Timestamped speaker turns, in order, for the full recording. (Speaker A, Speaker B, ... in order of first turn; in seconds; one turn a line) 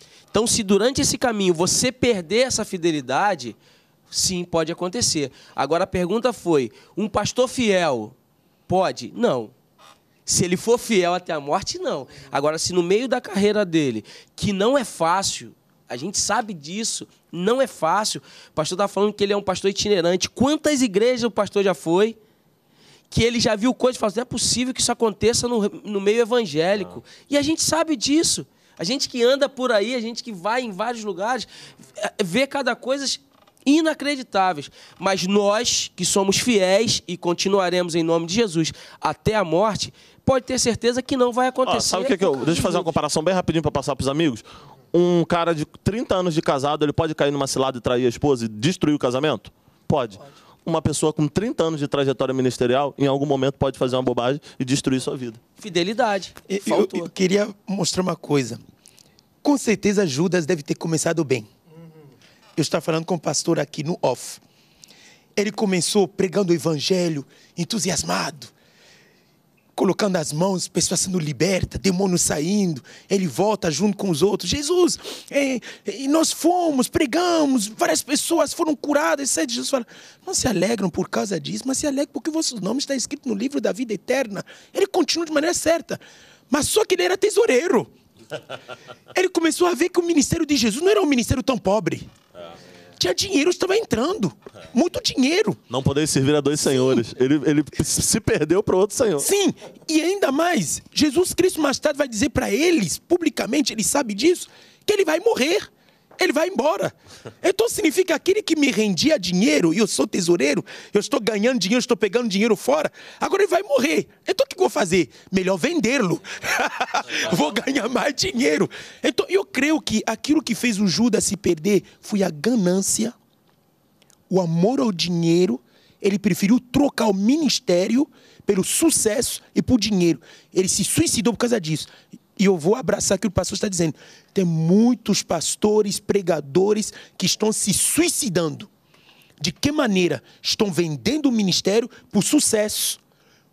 Speaker A: 0.3-3.6
Speaker A: 4.1-8.1
Speaker A: 8.7-9.5
Speaker A: 10.2-22.2
Speaker A: 23.1-31.5
Speaker A: 32.0-43.0
Speaker B: 41.6-55.4
Speaker A: 55.6-57.1
Speaker C: 56.5-58.6
Speaker C: 59.4-61.5
Speaker C: 62.5-64.4
Speaker C: 65.4-68.5
Speaker C: 69.7-87.9
Speaker C: 89.1-92.1
Speaker C: 93.0-95.6
Speaker B: 95.7-99.3
Speaker C: 99.2-123.1
Speaker C: 124.3-138.7
Speaker C: 139.4-143.0